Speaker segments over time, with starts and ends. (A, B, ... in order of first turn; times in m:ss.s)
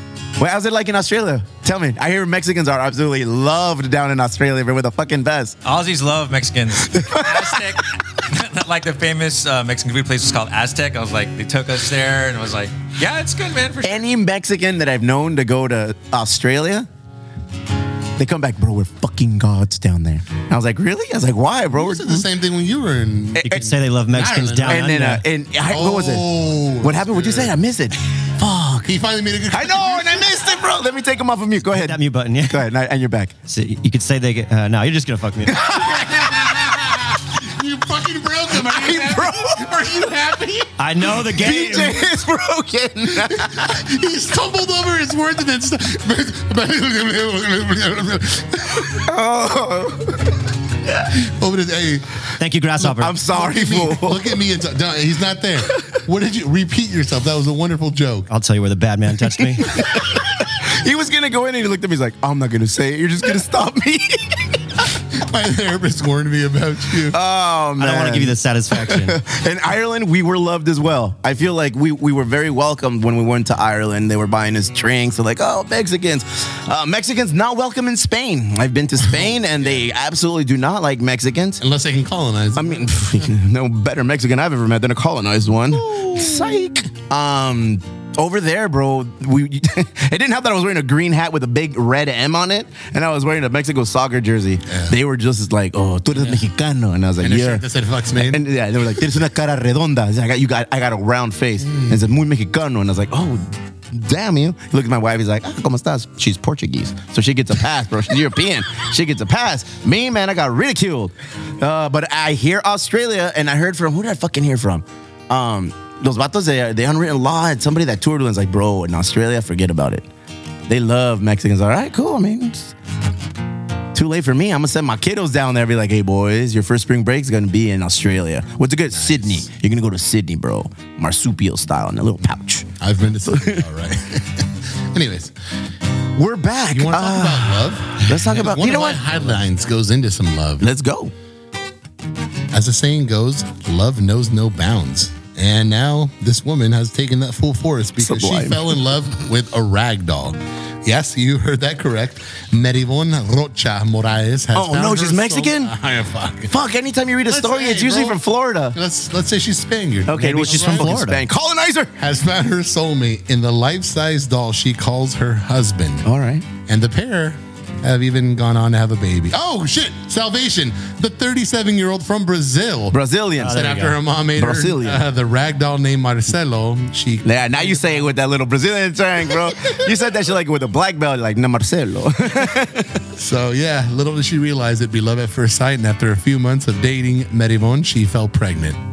0:00.4-0:05.6 A
0:05.6-0:14.0 B
0:06.9-0:07.8 A
0:13.8-0:16.9 A
0:18.2-0:22.3 A
0:21.7-0:24.9 C
0:23.4-0:25.2 D
0:24.6-0:28.8 A
0:25.7-0:27.6 C
0:28.4-0:30.5 C
0:29.5-0:33.3 A
0:31.7-0:32.7 D
0:33.5-0:35.7 D
0:35.6-0:40.7 C
0:38.6-0:39.6 A
0:40.8-0:42.0 D
0:41.3-0:43.6 A
0:43.1-0:48.9 C
0:48.9-0:50.2 A
0:51.1-0:52.0 C
0:52.4-0:53.2 D
0:52.8-0:58.3 C
0:52.9-0:54.2 A
0:58.3-0:59.7 D
0:59.8-1:04.4 A
1:05.1-1:07.2 C
1:07.1-1:21.6 A
1:07.8-1:09.2 D
1:19.0-1:19.8 C
1:21.6-1:23.3 C
1:22.6-1:37.6 A
1:25.7-1:26.6 C
1:34.7-1:34.9 C
1:36.1-1:36.5 C
1:37.2-1:38.4 C
1:38.1-2:00.1 A
1:41.6-1:42.0 C
2:00.7-2:02.7 A
2:03.9-2:12.7 A
2:08.9-2:09.4 C
2:12.8-2:15.3 C
2:13.2-2:13.6 A
2:16.2-2:19.3 A
2:16.7-2:20.6 C
2:20.6-2:21.1 A
2:22.5-2:36.5 C
2:28.0-2:28.8 A
2:34.5-2:35.7 A
2:36.5-2:38.8 A
2:37.2-2:38.2 C
2:38.7-2:41.3 C
2:40.1-2:41.9 A
2:40.2-2:41.1 D
2:42.0-2:46.0 C
2:46.0-2:46.4 A
2:46.6-2:58.0 C
2:52.9-2:53.6 A
2:53.4-2:54.0 D
2:54.4-2:55.0 A
2:57.2-3:03.0 A
3:03.1-3:08.8 C